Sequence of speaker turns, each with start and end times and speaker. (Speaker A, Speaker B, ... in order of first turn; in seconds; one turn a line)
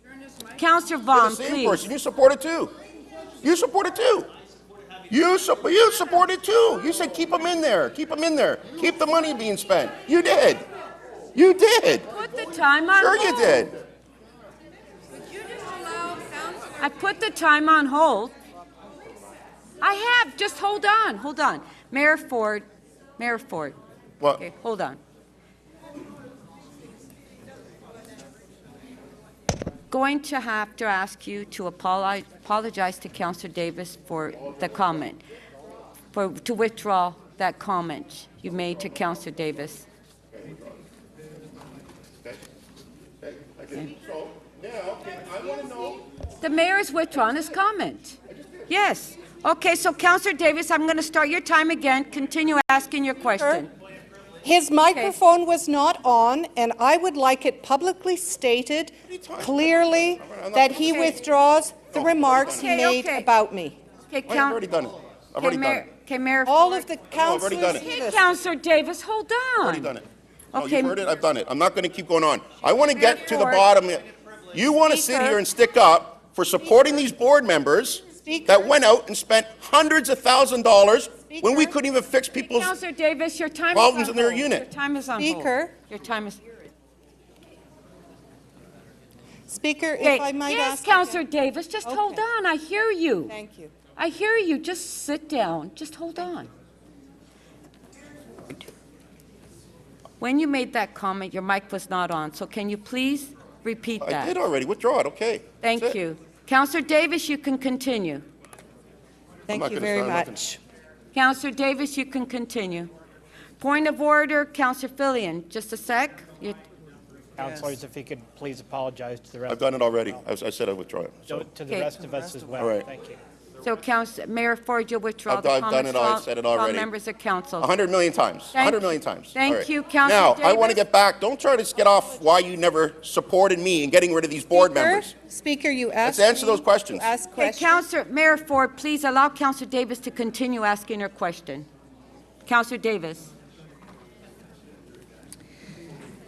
Speaker A: 0.5-1.9
Speaker B: 1.1-2.7
Speaker B: 3.4-4.3
Speaker B: 5.1-10.7
Speaker B: 11.3-12.1
Speaker A: 12.1-13.7
Speaker B: 13.0-13.8
Speaker A: 15.6-18.3
Speaker A: 19.8-22.6
Speaker A: 23.2-23.8
Speaker A: 24.4-25.0
Speaker A: 29.9-35.2
Speaker A: 36.1-39.9
Speaker B: 43.2-46.1
Speaker A: 46.4-48.2
Speaker B: 48.3-48.6
Speaker A: 48.7-53.7
Speaker C: 53.4-53.7
Speaker C: 54.4-63.8
Speaker B: 59.1-61.2
Speaker A: 60.8-61.1
Speaker B: 61.9-62.7
Speaker A: 62.5-63.3
Speaker A: 64.1-64.6
Speaker B: 64.3-65.8
Speaker A: 65.4-66.9
Speaker C: 66.5-68.2
Speaker B: 67.1-67.9
Speaker A: 67.7-69.9
Speaker B: 69.6-82.7
Speaker A: 70.5-71.0
Speaker A: 72.9-73.7
Speaker C: 74.9-75.4
Speaker C: 78.1-78.8
Speaker C: 81.3-81.8
Speaker A: 82.4-86.5
Speaker B: 83.7-84.7
Speaker C: 85.2-85.7
Speaker C: 89.5-91.2
Speaker A: 90.0-93.3
Speaker C: 91.9-92.2
Speaker C: 93.3-93.7
Speaker A: 94.0-96.5
Speaker A: 100.2-104.3
Speaker B: 104.0-106.0
Speaker A: 105.6-108.2
Speaker C: 109.5-110.6
Speaker B: 109.5-110.4
Speaker A: 111.1-112.9
Speaker A: 113.6-116.6
Speaker D: 117.4-119.6
Speaker B: 119.5-121.4
Speaker D: 121.3-123.2
Speaker A: 121.7-122.0
Speaker B: 122.6-122.9
Speaker A: 123.6-127.7
Speaker B: 125.3-126.9
Speaker B: 127.6-135.1
Speaker A: 128.5-130.8
Speaker C: 134.5-137.8
Speaker B: 136.0-137.1
Speaker A: 137.4-141.7
Speaker A: 142.5-143.3